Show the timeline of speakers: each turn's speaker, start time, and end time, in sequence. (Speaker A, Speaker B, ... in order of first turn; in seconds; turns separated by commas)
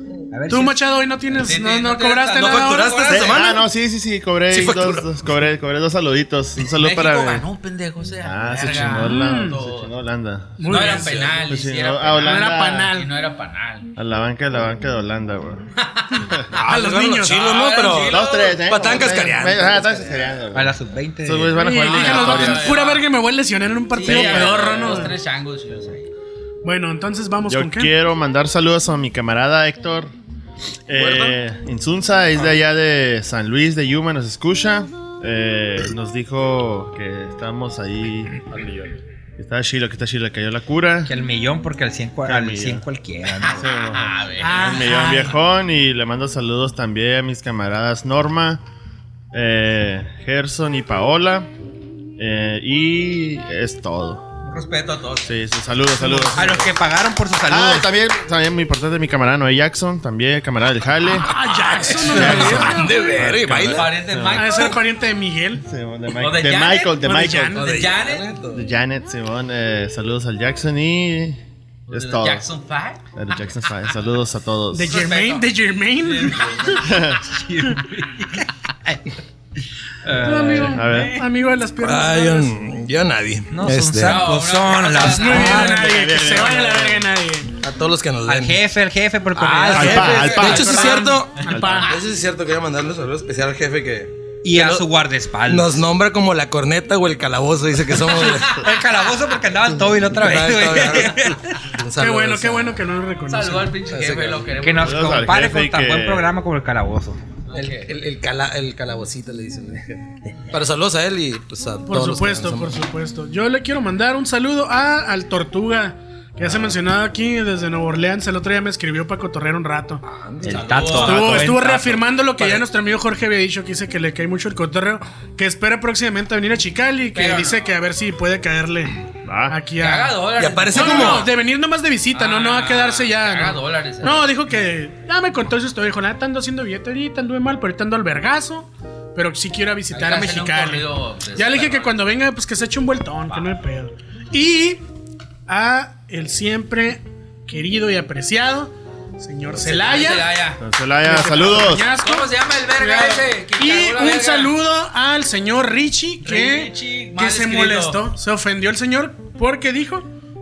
Speaker A: 0.3-0.8, Speaker B: 0.5-3.0, Speaker C: 1.4-3.3, Speaker D: 2.4-3.7, Speaker E: 3.1-7.5, Speaker D: 4.5-5.1, Speaker C: 6.7-9.9, Speaker E: 8.2-13.0, Speaker B: 8.9-9.6, Speaker B: 10.6-11.1, Speaker C: 10.7-13.9, Speaker D: 10.9-11.3, Speaker B: 12.2-13.1, Speaker E: 13.9-15.7, Speaker C: 15.8-16.3, Speaker B: 16.5-17.6, Speaker D: 16.5-20.0, Speaker C: 17.3-18.9, Speaker E: 18.0-22.8, Speaker A: 20.5-21.8, Speaker B: 21.5-25.1, Speaker C: 21.6-23.1, Speaker C: 23.9-26.1, Speaker E: 24.1-24.8, Speaker B: 26.6-27.9, Speaker E: 27.4-30.1, Speaker E: 30.9-38.4, Speaker D: 30.9-31.3, Speaker D: 38.6-38.9, Speaker E: 39.4-41.1, Speaker A: 41.1-43.7, Speaker E: 42.2-42.8, Speaker C: 43.4-44.8, Speaker E: 43.5-48.6, Speaker B: 44.4-45.4, Speaker E: 49.3-51.5, Speaker E: 52.2-54.2, Speaker C: 54.4-55.3, Speaker E: 55.2-56.7, Speaker A: 56.3-57.9, Speaker E: 57.5-61.3, Speaker B: 61.1-63.2, Speaker C: 61.9-64.8, Speaker E: 62.0-64.7, Speaker D: 62.0-63.9, Speaker B: 64.3-65.6, Speaker E: 65.6-67.6, Speaker C: 66.2-68.3, Speaker B: 67.0-67.7, Speaker D: 67.5-68.6, Speaker E: 68.5-72.5, Speaker C: 71.9-73.0, Speaker E: 73.1-74.9, Speaker B: 74.7-77.0, Speaker C: 74.9-75.5, Speaker C: 76.0-78.3, Speaker E: 76.8-77.2, Speaker A: 77.6-79.0, Speaker A: 80.0-81.0, Speaker B: 80.2-82.5, Speaker C: 80.5-81.1, Speaker E: 80.5-81.1, Speaker D: 81.8-84.2, Speaker A: 83.5-85.9, Speaker C: 84.0-85.8, Speaker B: 85.0-87.5, Speaker E: 85.3-87.1, Speaker D: 87.6-88.6, Speaker A: 88.3-91.0, Speaker D: 89.3-94.8, Speaker E: 89.7-91.9, Speaker B: 90.3-91.9, Speaker A: 94.4-95.8, Speaker D: 95.4-98.6, Speaker A: 98.4-101.7, Speaker D: 100.1-102.8, Speaker B: 102.0-103.8, Speaker C: 103.3-105.2, Speaker D: 103.9-104.5, Speaker A: 104.6-107.2, Speaker E: 104.8-106.3, Speaker C: 107.5-107.9, Speaker D: 107.5-112.8, Speaker B: 111.8-120.0, Speaker D: 120.0-121.5, Speaker A: 120.4-122.0, Speaker C: 120.4-121.5, Speaker B: 121.0-128.9, Speaker C: 127.1-127.6, Speaker E: 129.2-129.6, Speaker B: 129.5-144.8, Speaker C: 129.8-131.3, Speaker D: 130.4-131.3, Speaker C: 132.1-134.3, Speaker C: 139.9-141.9, Speaker B: 145.5-150.3, Speaker C: 149.6-150.6, Speaker E: 150.6-151.9, Speaker B: 151.0-160.1, Speaker C: 151.7-154.5, Speaker C: 156.2-158.0